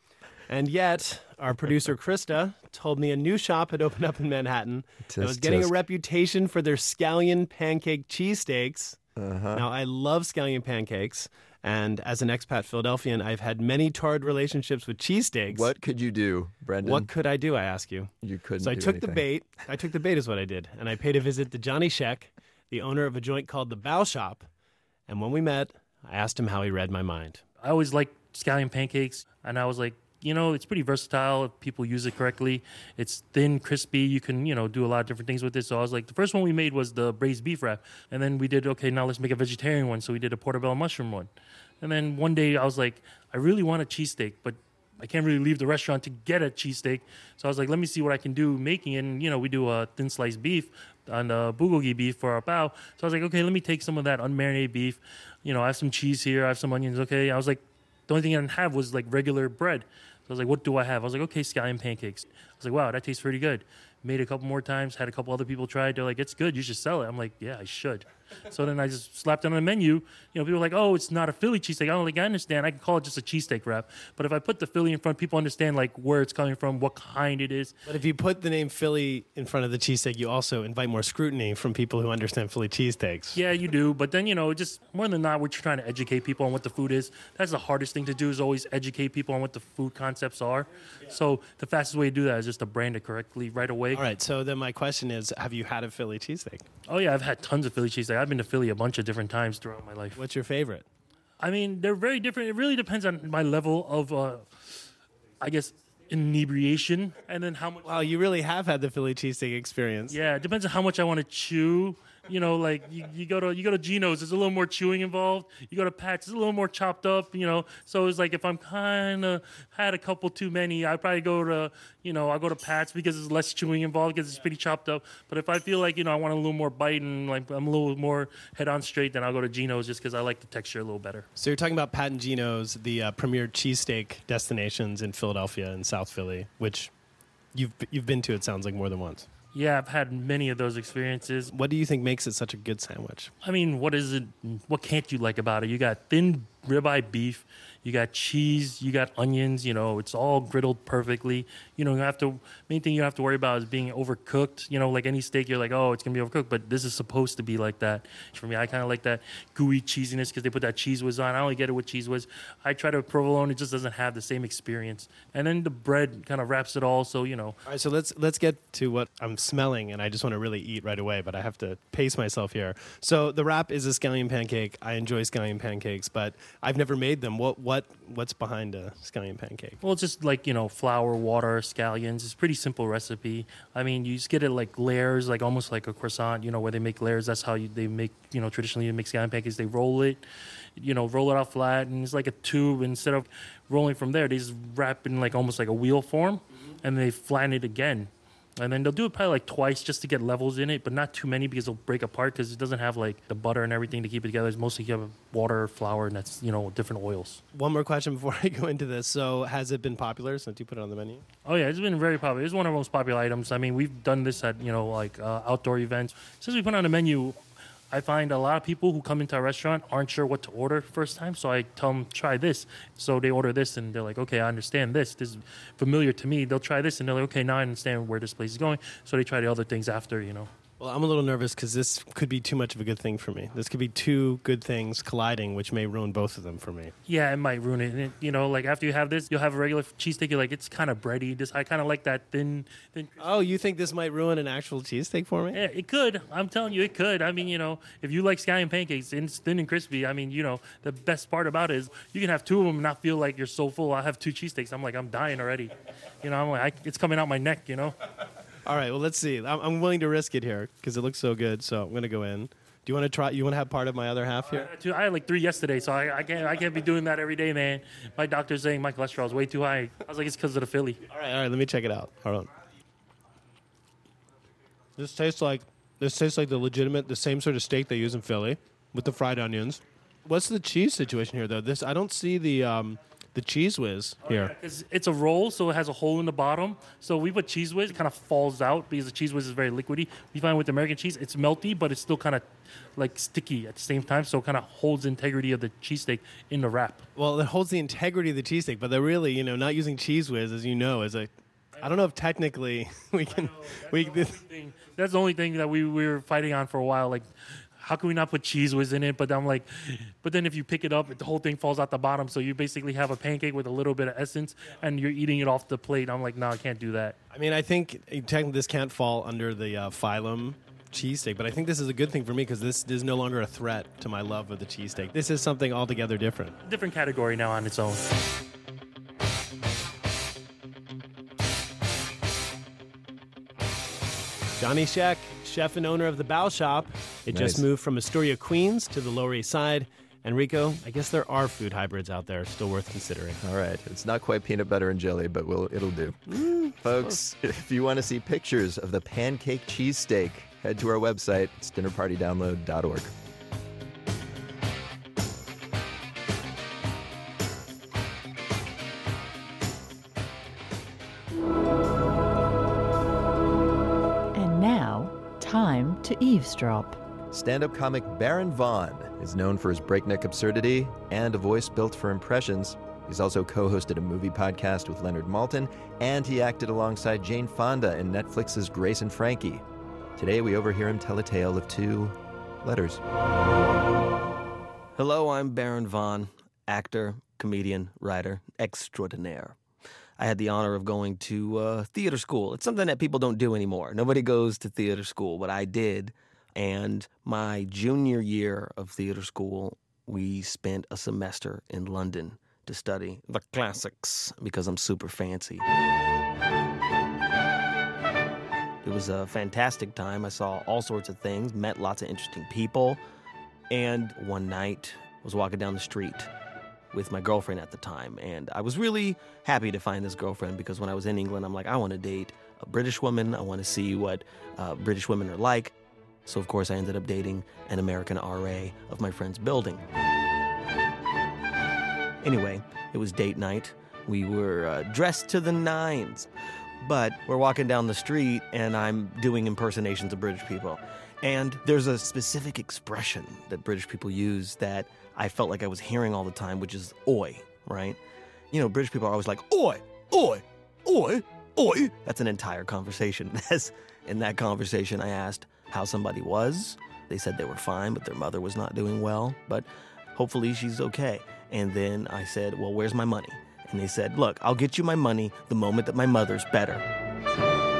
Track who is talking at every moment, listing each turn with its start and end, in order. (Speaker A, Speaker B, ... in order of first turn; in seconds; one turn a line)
Speaker A: 0.5-9.0
Speaker B: 5.1-5.7
Speaker B: 9.2-9.7
Speaker A: 9.5-15.7
Speaker B: 15.5-17.1
Speaker A: 16.8-24.5
Speaker B: 18.2-19.2
Speaker A: 25.1-27.4
Speaker C: 27.6-77.7
Speaker A: 77.8-83.4
Speaker C: 83.3-94.0
Speaker A: 93.9-96.7
Speaker C: 96.9-100.2
Speaker A: 100.2-100.8
Speaker C: 101.4-104.6
Speaker C: 105.4-107.9
Speaker A: 107.8-110.2
Speaker C: 110.1-131.3
Speaker A: 131.3-136.9
Speaker A: 137.5-139.3
Speaker C: 139.5-141.5
Speaker A: 141.5-143.3
Speaker C: 143.4-167.6
Speaker A: 167.6-179.8
Speaker C: 179.8-190.2
Speaker C: 190.8-207.4
Speaker A: 207.5-211.2
Speaker C: 211.4-217.4
Speaker C: 217.9-230.5
Speaker A: 230.8-236.9
Speaker C: 237.1-243.6
Speaker A: 243.2-245.6
Speaker C: 245.5-257.9
Speaker A: 258.6-264.7
Speaker C: 264.5-271.0
Speaker A: 271.1-272.5
Speaker A: 275.0-284.5
Speaker C: 284.2-292.4
Speaker C: 292.9-297.1
Speaker A: 297.1-304.4
Speaker C: 303.4-317.2
Speaker A: 317.3-326.6
Speaker C: 326.6-328.1
Speaker A: 334.6-343.4
Speaker B: 337.3-337.6
Speaker B: 343.4-353.1
Speaker A: 346.3-347.1
Speaker D: 364.3-367.0
Speaker B: 367.3-379.6
Speaker B: 380.2-383.0
Speaker E: 384.9-389.6
Speaker E: 390.2-405.6
Speaker E: 408.8-413.0
Speaker E: 413.7-416.3
Speaker E: 416.9-425.7
Speaker E: 426.2-429.8
Speaker E: 432.2-436.3
Speaker E: 436.8-448.0
Speaker E: 448.5-466.8